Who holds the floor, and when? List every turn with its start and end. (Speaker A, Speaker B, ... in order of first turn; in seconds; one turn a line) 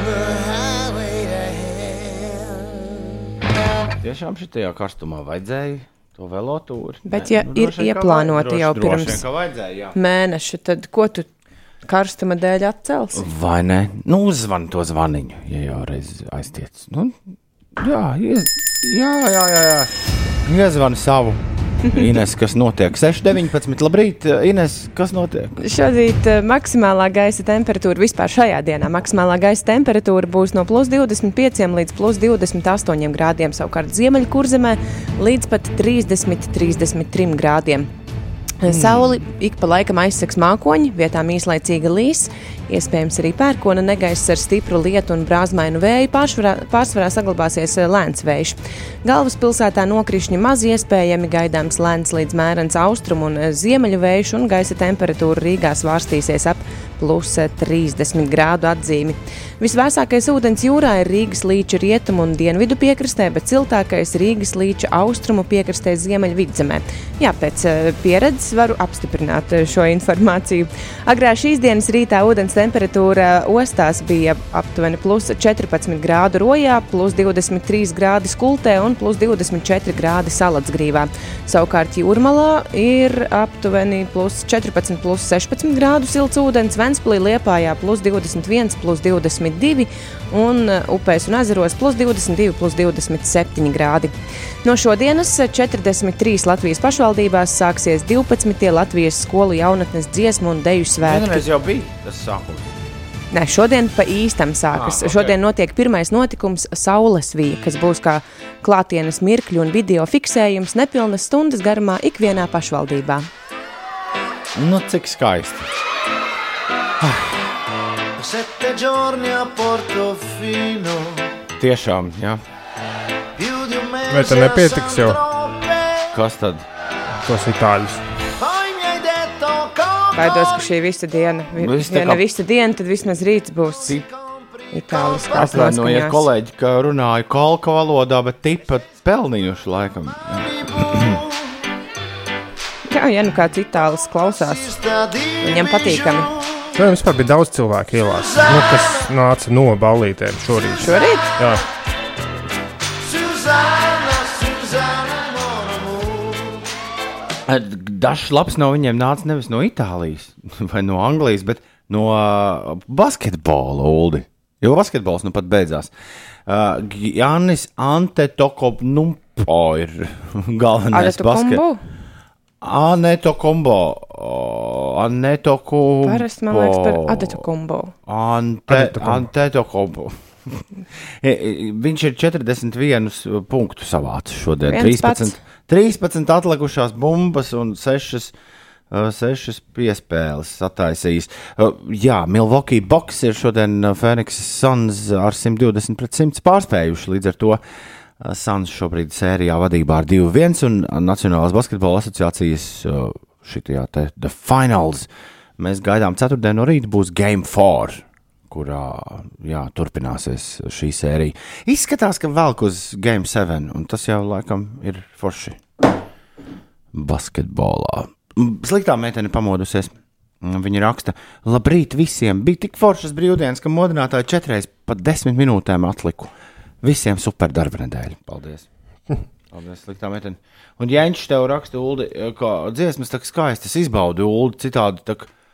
Speaker A: 0.6-2.4
Speaker A: 4.0-9.9
Speaker B: 7.0-9.2
Speaker B: 9.9-11.3
Speaker B: 11.8-13.3
Speaker A: 13.1-17.1
Speaker A: 17.8-19.9
Speaker A: 20.4-25.5
Speaker B: 25.6-37.9
Speaker B: 38.6-101.4
Speaker A: 38.7-39.2
Speaker A: 101.0-102.7
Speaker B: 103.3-113.3
Speaker A: 104.7-105.3
Speaker A: 114.5-115.6
Speaker A: 117.0-117.3
Speaker C: 118.2-121.0
Speaker A: 121.6-122.4
Speaker C: 123.4-124.2
Speaker D: 124.1-125.2
Speaker A: 126.1-126.7
Speaker D: 127.2-128.0
Speaker C: 128.5-129.8
Speaker B: 130.1-134.0
Speaker A: 131.6-132.2
Speaker B: 134.7-136.2
Speaker A: 135.3-141.2
Speaker B: 142.9-144.8
Speaker B: 145.4-146.3
Speaker D: 146.7-151.6
Speaker B: 150.8-151.4
Speaker C: 153.3-154.2
Speaker A: 157.4-165.9
Speaker A: 166.5-171.6
Speaker B: 170.9-171.8
Speaker A: 172.6-177.4
Speaker B: 176.0-177.9
Speaker A: 178.1-188.3
Speaker D: 178.7-179.3
Speaker B: 184.7-185.4
Speaker A: 188.9-197.6
Speaker A: 198.2-215.6
Speaker A: 216.9-228.7
Speaker A: 229.5-235.3